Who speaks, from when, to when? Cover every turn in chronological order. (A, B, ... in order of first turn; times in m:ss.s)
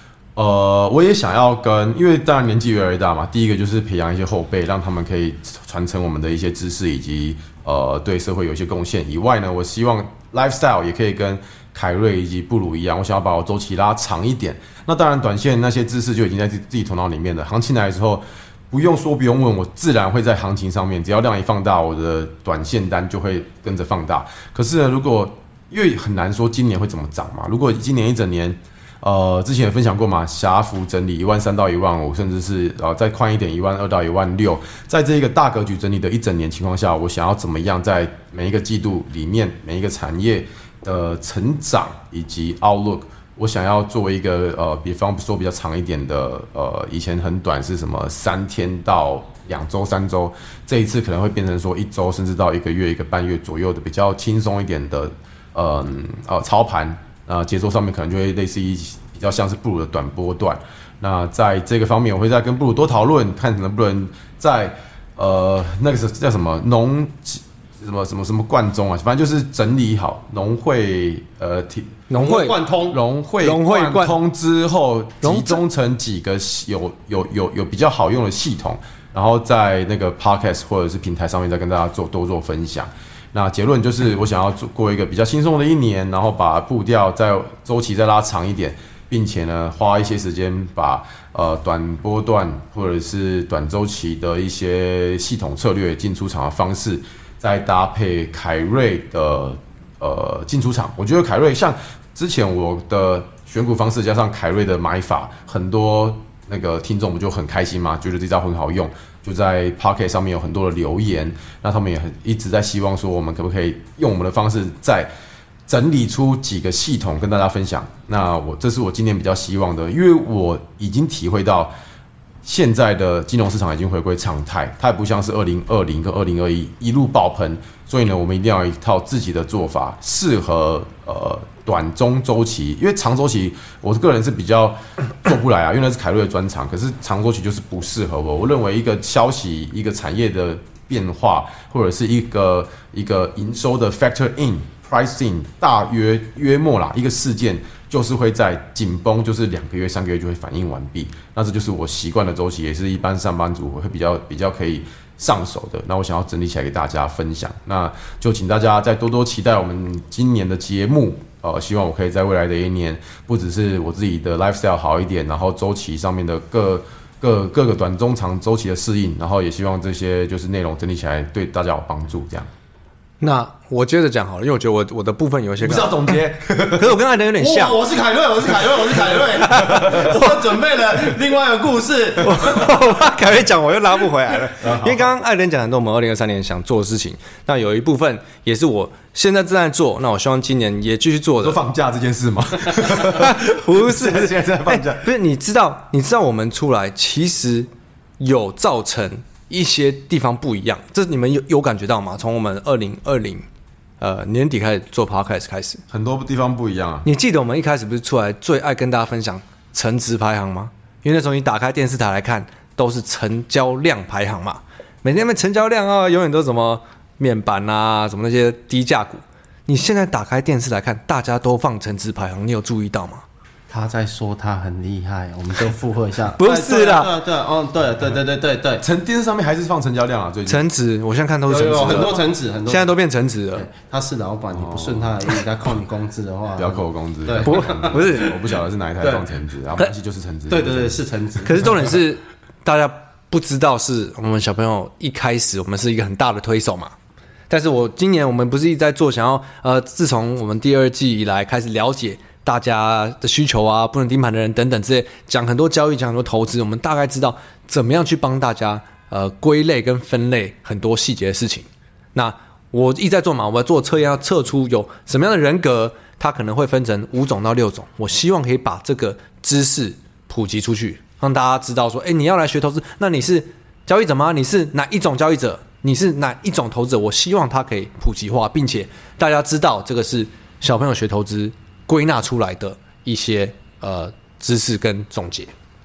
0:00.4-1:12.0 A
1:12.1-1:12.6 B
1:12.1-1:13.0 C
1:12.9-1:55.1 A
1:13.4-1:14.1 B
1:15.2-1:15.6 B
1:55.7-2:01.7 A
2:02.4-2:52.5 A
2:53.2-2:57.8 B
2:55.6-2:57.0 A
2:57.4-3:02.9 C
2:59.1-3:00.2 B
2:59.7-3:00.1 A
3:02.2-3:11.6 B
3:04.6-3:05.1 A
3:11.4-3:15.1 A
3:12.8-3:17.7 B
3:18.2-3:23.4 B
3:24.0-3:25.8 B
3:25.9-3:27.1 A
3:27.0-3:43.2 B
3:43.7-3:48.8 C
3:46.4-3:47.1 B
3:48.8-3:50.6 A
3:50.5-3:53.6 B
3:51.5-3:53.0 C
3:53.5-3:58.2 C
3:54.5-3:55.2 A
3:56.6-4:01.0 A
3:57.4-3:58.4 B
3:59.0-3:59.2 C
4:00.5-4:01.7 C
4:01.4-4:06.9 B
4:07.5-4:45.5 B